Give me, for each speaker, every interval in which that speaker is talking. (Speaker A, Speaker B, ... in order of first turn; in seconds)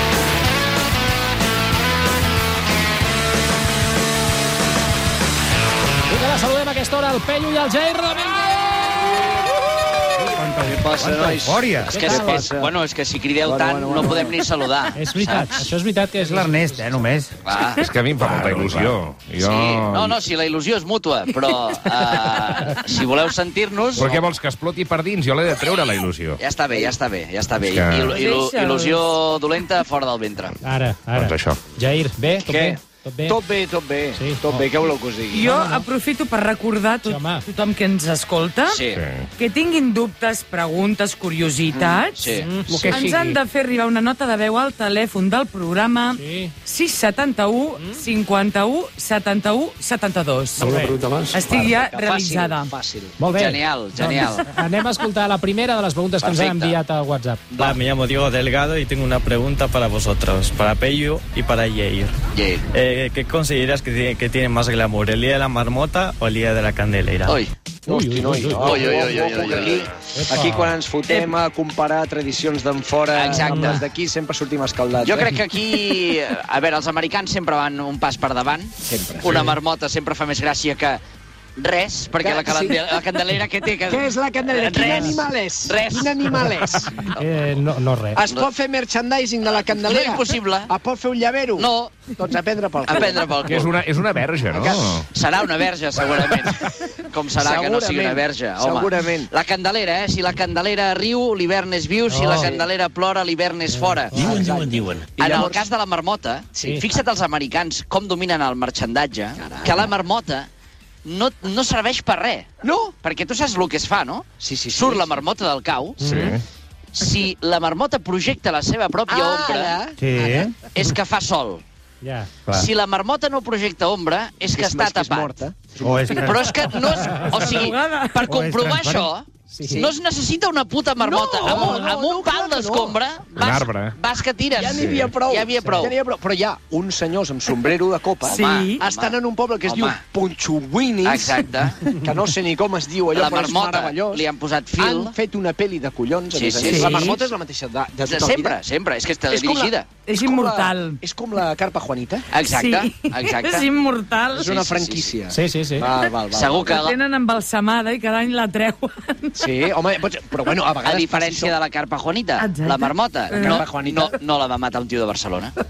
Speaker A: 6.1-8.9, 11.8-12.6, 14.9-17.1, 30.6-33.4, 34.1-34.7, 35.3-35.9, 37.0-37.4, 42.3-43.0, 46.1-46.5, 50.6-51.0, 53.2-57.6, 67.9-69.0, 70.1-70.8, 73.4-73.8, 87.2-88.2, 102.1-102.6, 103.7-104.7, 116.0-116.3, 122.0-122.3, 129.5-129.9, 155.3-155.9
Speaker B: 10.5-12.7, 26.7-26.9, 32.4-35.5, 41.7-42.0, 42.6-43.4, 51.4-53.2, 67.9-75.4, 78.8-79.5, 82.2-83.0, 83.9-87.0, 88.1-93.3, 97.4-99.3, 102.3-102.7, 104.2-105.7, 106.5-106.9, 109.4-109.9, 112.6-112.9, 114.4-115.2, 119.1-120.5, 124.5-126.8, 129.6-129.9, 131.0-133.0, 134.5-144.2, 144.8-148.6, 149.3-152.3, 154.3-156.8, 159.4-161.6, 163.3-164.1
Speaker C: 11.2-11.9, 16.2-17.3, 120.0-120.5, 125.8-126.3, 128.3-129.1
Speaker D: 11.8-15.6, 17.4-17.9, 19.4-24.3, 26.4-30.5, 38.7-39.0, 42.1-42.5, 53.3-54.5, 56.2-56.8, 57.5-57.8, 62.3-62.7, 67.2-67.5, 68.5-69.9, 73.1-73.8, 75.0-81.0, 81.6-87.2, 89.7-90.7, 91.6-92.1, 92.8-93.7, 94.5-104.3, 105.2-110.5, 111.0-112.5, 113.0-116.2, 116.9-119.9, 120.7-121.6, 122.5-125.3, 126.1-136.0, 138.2-140.0, 141.0-141.8, 143.1-145.1, 146.3-147.1, 148.0-150.0, 152.3-153.7, 154.4-155.1, 156.3-157.0, 160.8-165.5
Speaker E: 13.4-14.3, 57.5-62.1, 62.7-67.3
Speaker F: 17.8-20.2, 23.9-26.4, 27.7-28.1, 31.1-31.6, 38.9-39.3, 93.5-95.1, 116.0-116.4, 133.3-134.0
Speaker G: 28.0-29.1, 35.3-38.8, 39.4-52.7, 127.5-128.3, 138.5-138.8, 146.6-147.3, 150.0-151.0, 152.4-154.5, 156.5-159.5, 162.4-163.6